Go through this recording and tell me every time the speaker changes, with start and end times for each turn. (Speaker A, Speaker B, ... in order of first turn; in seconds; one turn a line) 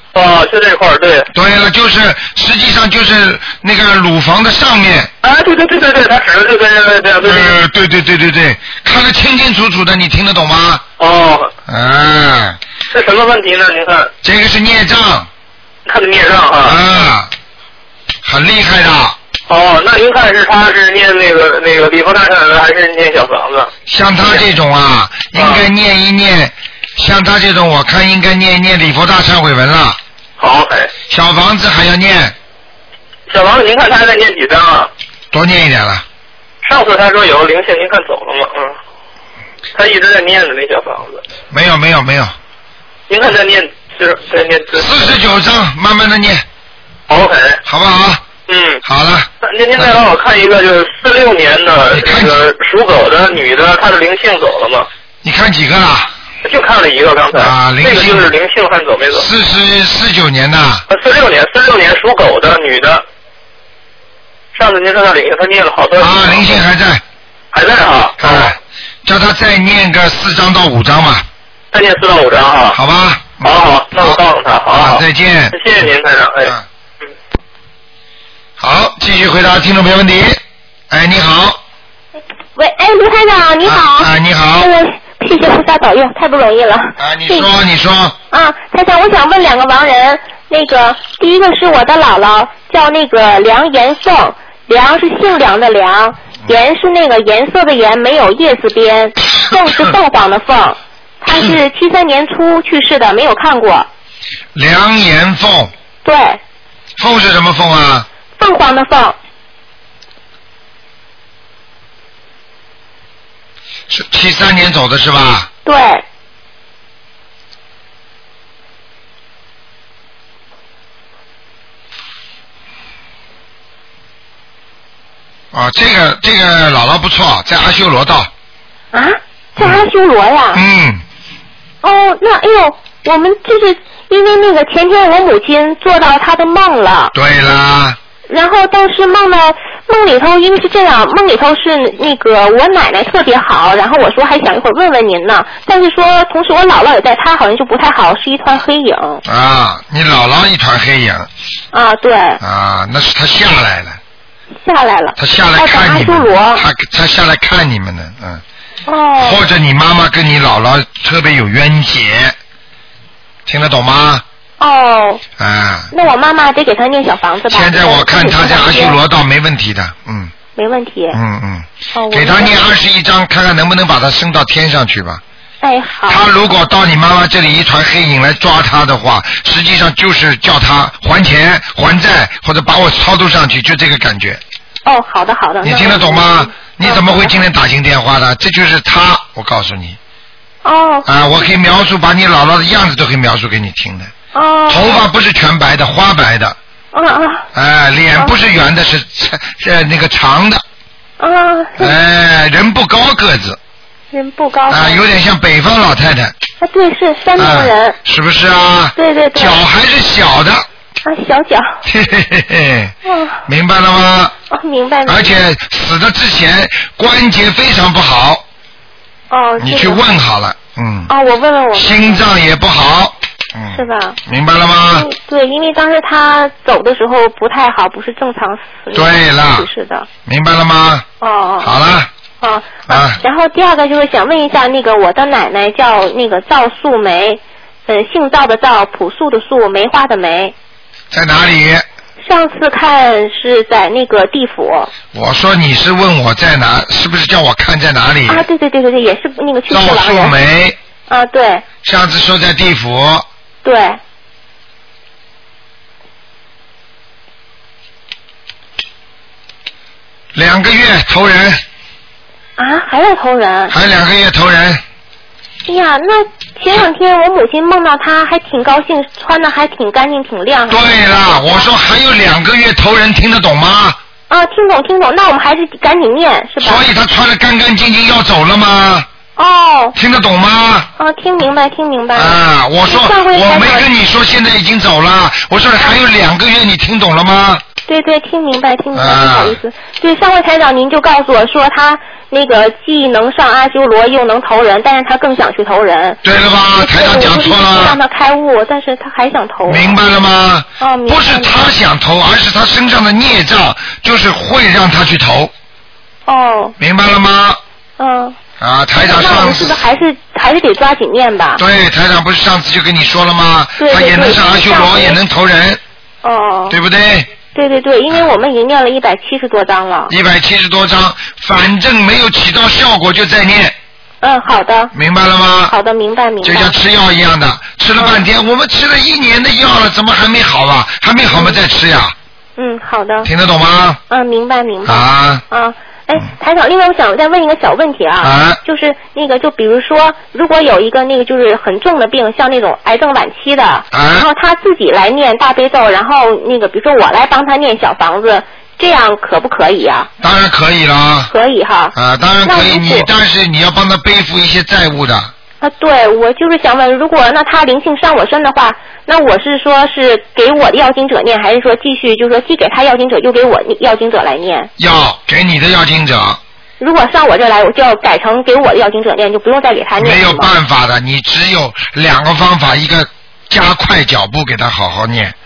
Speaker A: 0.1-1.3
Speaker B: 1.3-5.1
Speaker A: 5.2-7.6
Speaker B: 7.2-10.8
Speaker A: 11.0-11.5
Speaker B: 11.7-12.6
Speaker A: 12.9-14.1
Speaker B: 14.2-15.3
Speaker A: 15.9-16.8
Speaker B: 16.6-17.3
Speaker B: 18.2-19.2
Speaker A: 19.5-24.5
Speaker B: 23.9-30.0
Speaker A: 25.4-25.6
Speaker A: 30.4-30.9
Speaker B: 31.1-32.4
Speaker A: 33.3-34.9
Speaker B: 35.3-36.0
Speaker A: 36.6-38.8
Speaker A: 39.8-41.2
Speaker B: 41.5-42.3
Speaker A: 43.1-45.2
Speaker B: 44.8-46.4
Speaker A: 47.1-47.6
Speaker B: 47.6-48.2
Speaker A: 48.5-48.8
Speaker B: 48.8-49.9
Speaker A: 49.4-54.9
Speaker B: 51.9-52.4
Speaker B: 55.2-56.1
Speaker A: 56.4-59.3
Speaker B: 57.4-58.3
Speaker B: 59.1-60.8
Speaker A: 60.9-63.0
Speaker A: 64.5-66.6
Speaker B: 66.0-67.0
Speaker A: 67.5-68.5
Speaker B: 68.2-71.3
Speaker A: 71.7-72.8
Speaker B: 72.7-74.2
Speaker A: 73.4-76.5
Speaker B: 74.7-75.6
Speaker B: 78.6-81.6
Speaker C: 82.6-87.5
Speaker B: 83.7-84.7
Speaker B: 87.0-88.2
Speaker C: 88.3-103.9
Speaker B: 104.5-105.7
Speaker C: 106.0-106.4
Speaker B: 107.0-108.1
Speaker C: 108.4-109.2
Speaker B: 113.9-115.5
Speaker C: 115.7-116.0
Speaker B: 125.5-128.3
Speaker C: 128.9-130.6
Speaker B: 129.6-129.9
Speaker B: 130.5-131.0
Speaker C: 131.8-137.1
Speaker B: 137.1-138.0
Speaker C: 138.3-149.2
Speaker B: 149.3-151.3
Speaker C: 151.7-152.4
Speaker B: 152.4-154.0
Speaker C: 154.6-156.7
Speaker B: 155.2-158.4
Speaker C: 158.9-159.4
Speaker B: 159.2-162.4
Speaker B: 163.5-164.2
Speaker C: 164.6-165.2
Speaker B: 165.4-165.9
Speaker C: 165.9-169.0
Speaker B: 167.5-170.3
Speaker C: 170.6-171.2
Speaker B: 171.1-175.2
Speaker C: 171.9-172.8
Speaker C: 175.6-176.3
Speaker B: 176.1-184.4
Speaker C: 184.9-187.4
Speaker B: 185.6-190.0
Speaker C: 190.6-191.1
Speaker B: 191.1-194.1
Speaker C: 194.3-195.1
Speaker B: 194.7-196.6
Speaker C: 196.9-197.5
Speaker B: 197.5-200.6
Speaker C: 201.2-202.0
Speaker B: 201.8-203.6
Speaker C: 204.1-205.0
Speaker B: 204.7-206.3
Speaker C: 206.6-208.0
Speaker B: 207.4-210.7
Speaker C: 209.0-209.6
Speaker C: 211.1-211.7
Speaker B: 211.8-212.9
Speaker C: 213.1-213.4
Speaker B: 213.5-214.3
Speaker C: 214.5-215.4
Speaker B: 215.1-218.4
Speaker C: 219.3-220.0
Speaker B: 219.6-221.1
Speaker C: 221.1-222.2
Speaker B: 221.8-225.1
Speaker C: 223.7-224.2
Speaker C: 224.9-230.1
Speaker B: 228.9-229.7
Speaker B: 230.3-231.1
Speaker C: 231.2-231.8
Speaker B: 231.6-232.1
Speaker C: 232.4-240.5
Speaker B: 232.9-233.2
Speaker B: 241.1-241.9
Speaker C: 242.2-244.9
Speaker B: 245.1-248.5
Speaker C: 248.3-250.3
Speaker B: 249.7-250.8
Speaker C: 251.1-251.7
Speaker B: 251.8-253.2
Speaker C: 253.6-254.0
Speaker B: 260.4-261.6
Speaker C: 262.6-263.8
Speaker B: 263.7-264.8
Speaker C: 265.6-271.7
Speaker B: 270.7-274.0
Speaker C: 274.3-276.9
Speaker B: 276.6-279.1
Speaker C: 279.4-280.0
Speaker B: 280.0-280.9
Speaker C: 281.0-283.9
Speaker B: 282.1-287.6
Speaker C: 287.9-296.2
Speaker B: 288.9-289.6
Speaker B: 296.2-298.0
Speaker C: 296.8-300.0
Speaker B: 299.6-305.5
Speaker C: 300.8-301.6
Speaker C: 306.3-306.8
Speaker B: 306.8-307.6
Speaker C: 308.0-308.4
Speaker B: 308.6-309.9
Speaker C: 309.0-311.6
Speaker B: 311.6-315.8
Speaker C: 313.8-315.2
Speaker C: 316.2-316.8
Speaker B: 316.7-317.3
Speaker C: 317.5-320.1
Speaker B: 320.1-323.8
Speaker C: 324.2-324.9
Speaker B: 324.9-325.8
Speaker C: 325.7-326.8
Speaker B: 326.4-332.1
Speaker C: 328.0-328.2
Speaker C: 331.3-331.6
Speaker C: 332.6-333.3
Speaker B: 333.2-334.0
Speaker C: 334.1-350.1
Speaker B: 334.9-335.4
Speaker B: 338.2-338.6
Speaker B: 343.9-344.3
Speaker B: 350.2-351.3
Speaker C: 351.3-353.1
Speaker B: 351.9-355.3
Speaker C: 355.6-364.7
Speaker B: 364.8-366.4
Speaker C: 366.8-370.5
Speaker B: 370.0-375.4